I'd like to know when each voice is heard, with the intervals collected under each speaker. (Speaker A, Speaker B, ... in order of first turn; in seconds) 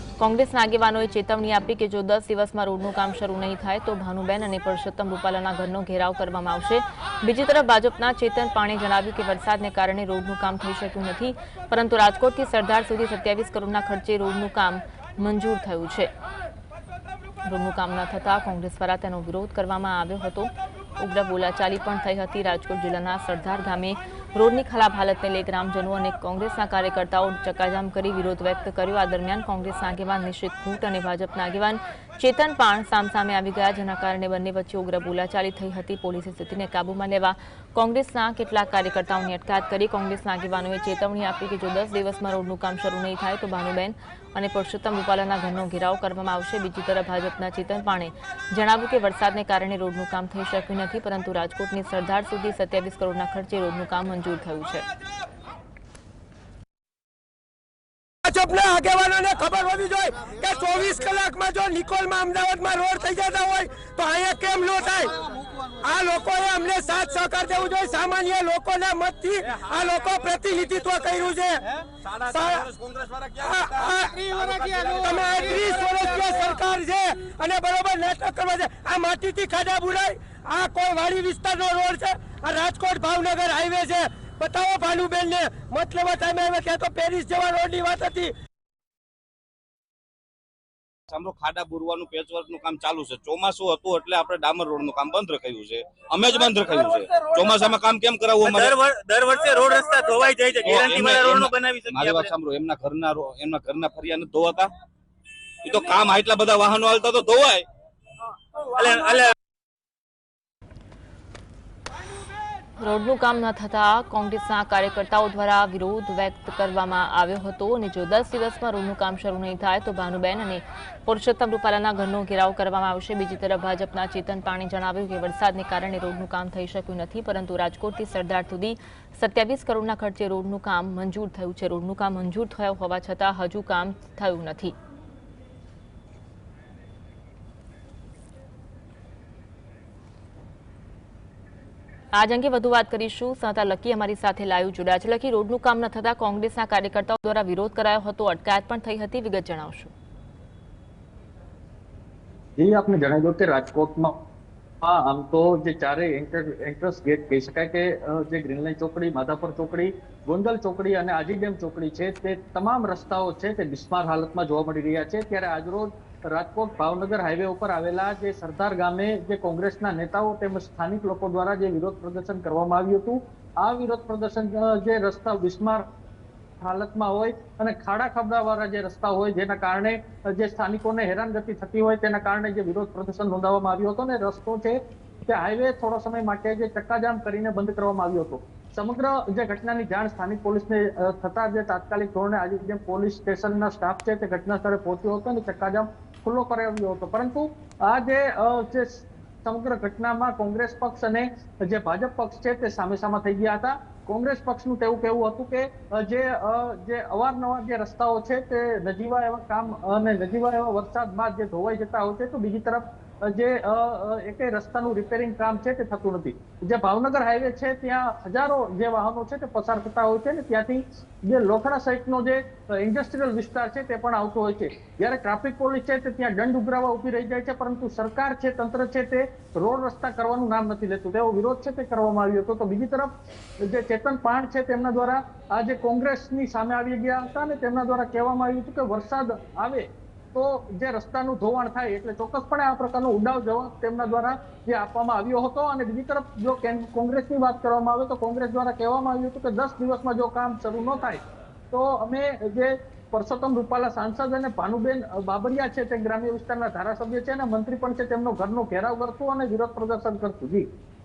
Speaker A: 0.2-16.1, 17.4-54.9, 112.8-134.7, 142.1-149.9
Speaker B: 58.2-65.2, 65.8-71.7, 72.3-72.7, 73.4-74.2, 74.9-88.3
Speaker C: 71.8-73.4, 74.2-75.8, 91.1-98.8, 100.6-104.7, 105.6-107.6
Speaker D: 98.6-102.2, 108.8-109.2
Speaker E: 152.6-154.2, 154.8-175.8, 176.6-233.1, 233.6-260.6